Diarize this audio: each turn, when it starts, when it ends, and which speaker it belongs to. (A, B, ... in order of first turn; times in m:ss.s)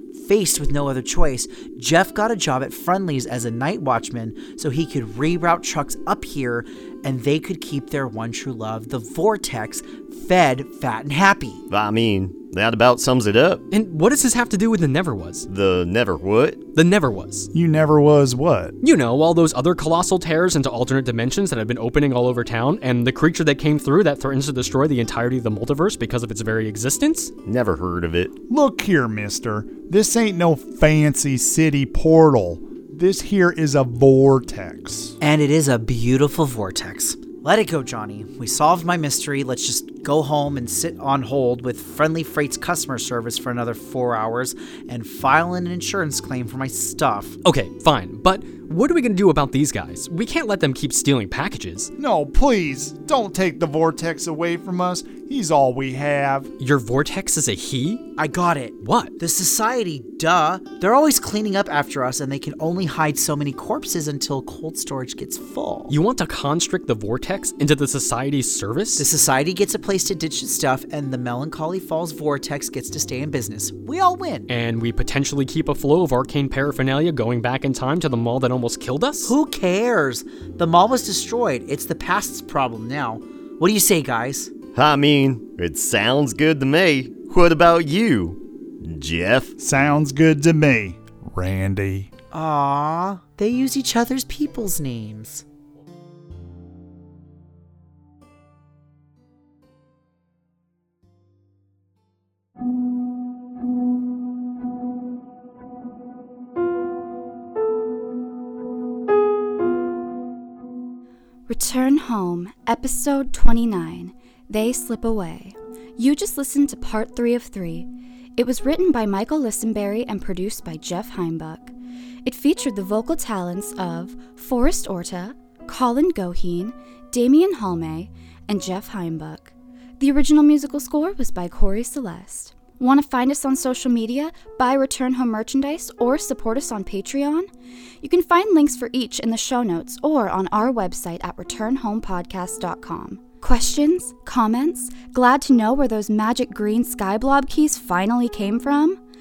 0:00.1-0:11.6 A
0:11.7-0:13.6 B
0:13.7-0:15.5 C
0:15.5-0:16.6 B
0:16.7-0:17.5 C
0:17.5-0:18.8 D
0:18.8-0:27.3 C
0:27.4-0:28.3 B
0:28.5-0:35.2 D
0:35.2-0:47.4 A
0:47.4-0:51.9 C
0:52.0-0:56.5 D
0:56.6-0:58.0 C
0:58.2-1:05.9 A
0:58.8-0:59.1 C
1:05.9-1:09.1 C
1:09.0-1:14.5 A
1:14.5-1:19.3 C
1:19.2-1:24.5 A
1:24.7-1:29.5 B
1:29.6-1:32.1 D
1:32.3-1:35.4 A
1:51.5-2:01.7 E
2:02.2-2:17.5 E
2:18.0-2:29.0 E